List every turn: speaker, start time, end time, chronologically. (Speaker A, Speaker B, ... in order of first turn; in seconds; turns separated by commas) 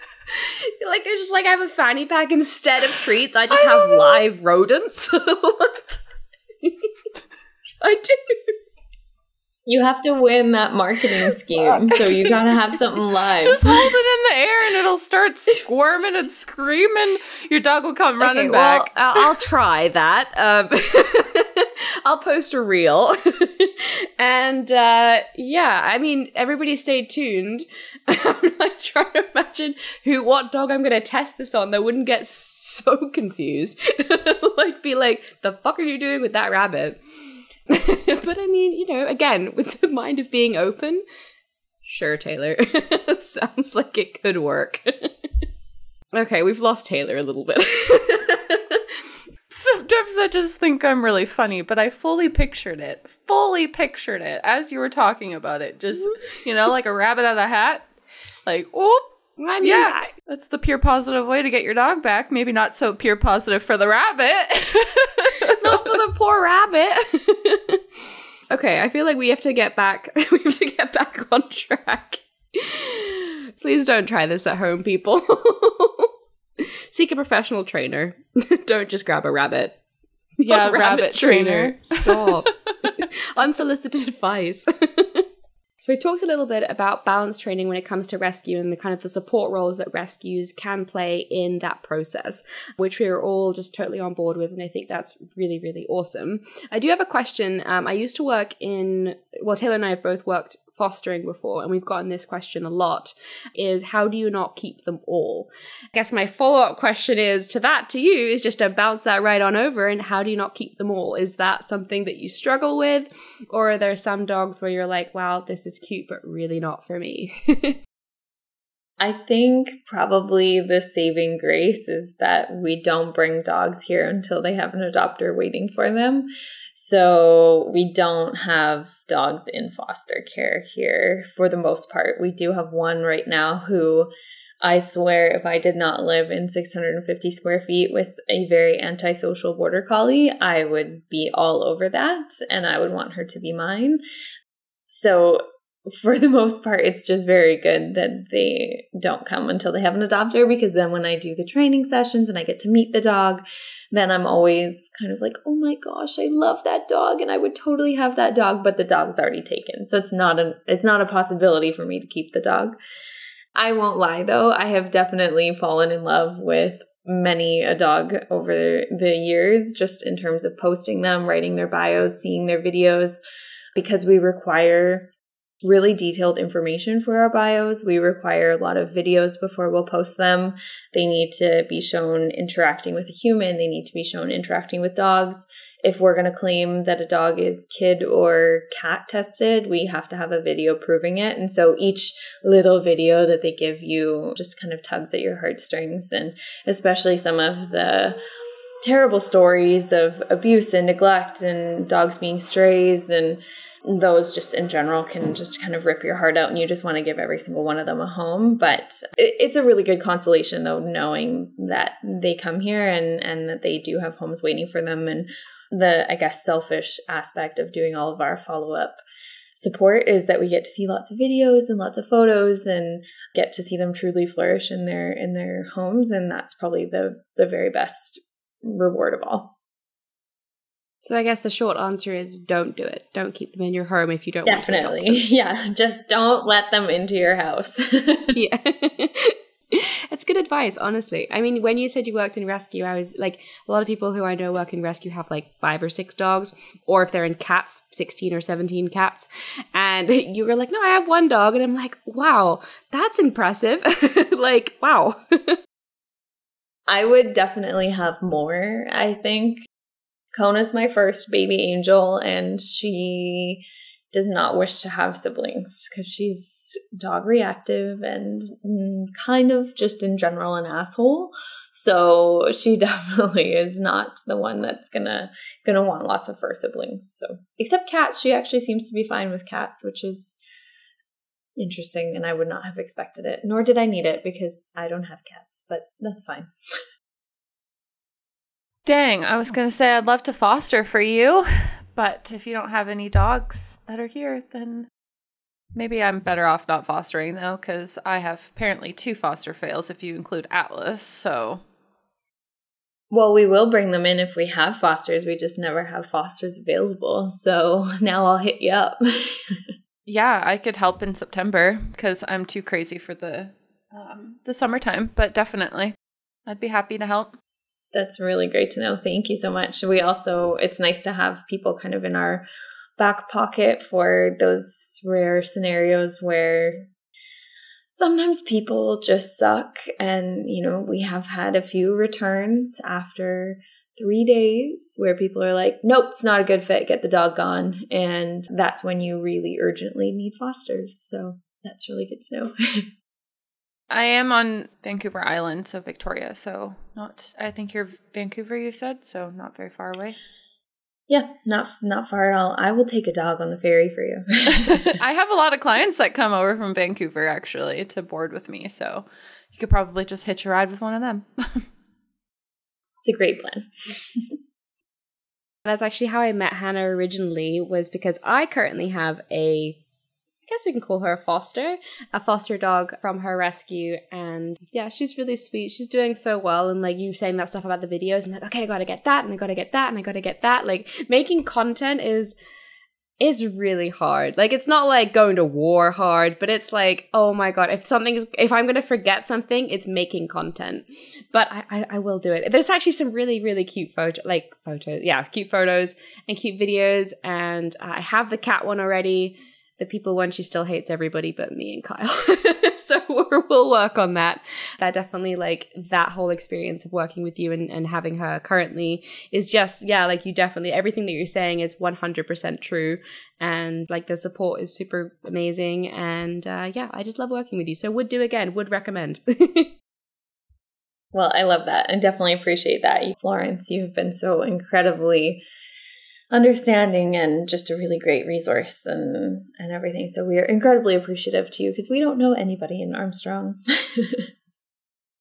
Speaker A: 0.3-5.9, Speaker B: 3.5-4.2, Speaker A: 6.6-6.9, Speaker A: 7.8-8.6, Speaker C: 9.7-14.0, Speaker A: 11.3-12.4, Speaker B: 13.4-19.5, Speaker A: 18.2-37.0, Speaker A: 37.7-41.0, Speaker A: 41.8-45.1, Speaker A: 46.1-49.0, Speaker B: 49.5-57.9, Speaker B: 58.5-59.0, Speaker A: 59.4-60.1, Speaker B: 59.6-66.0, Speaker A: 65.5-67.8, Speaker A: 68.5-79.8, Speaker A: 80.4-85.2, Speaker B: 80.5-82.9, Speaker A: 85.8-117.8, Speaker C: 119.0-134.1, Speaker C: 134.6-144.0, Speaker C: 144.9-145.4, Speaker C: 146.0-162.8, Speaker C: 163.6-173.2, Speaker C: 173.8-175.1, Speaker C: 175.6-198.2, Speaker C: 198.8-219.0, Speaker C: 219.6-229.5, Speaker A: 231.0-235.2, Speaker C: 234.4-238.4, Speaker A: 238.3-255.6, Speaker C: 256.9-259.6, Speaker C: 260.3-280.4, Speaker C: 281.6-286.5, Speaker B: 288.8-294.9, Speaker B: 295.7-301.6, Speaker C: 303.1-309.6, Speaker B: 310.1-315.9, Speaker B: 316.4-317.3, Speaker C: 317.9-322.4, Speaker C: 323.0-326.8, Speaker C: 327.9-342.8, Speaker B: 343.9-350.2, Speaker C: 351.1-354.9, Speaker B: 354.5-361.6, Speaker C: 363.1-364.3, Speaker A: 365.6-369.8, Speaker A: 370.5-382.3, Speaker A: 383.2-419.7, Speaker C: 421.1-425.4, Speaker C: 426.3-434.3